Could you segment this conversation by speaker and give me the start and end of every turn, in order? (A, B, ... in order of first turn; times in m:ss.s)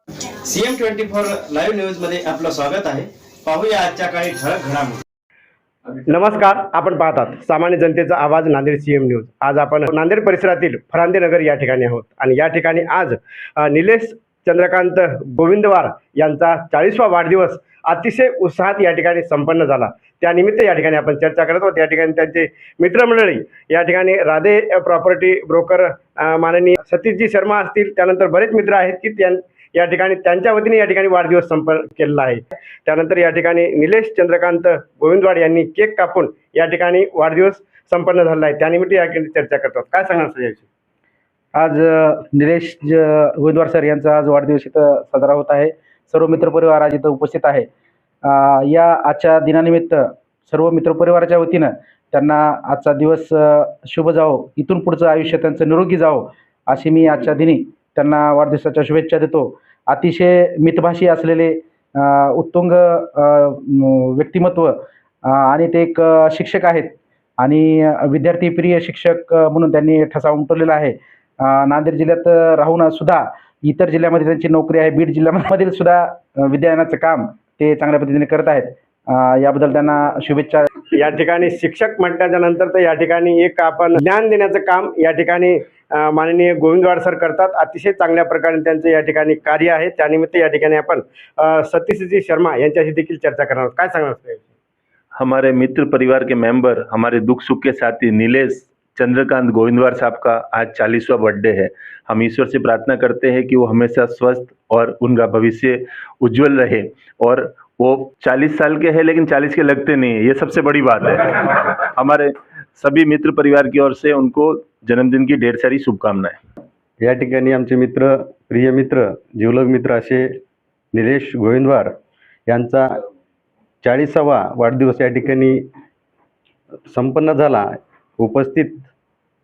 0:00.5-0:05.0 A
0:06.1-0:40.6 B
0:41.6-0:47.7 C
0:48.2-1:20.7 C
1:20.9-1:34.5 B
1:35.2-1:56.4 D
1:57.0-2:00.4 E
2:00.9-2:01.9 E
2:02.5-2:02.9 E
2:03.8-2:05.7 E
2:06.9-2:08.9 E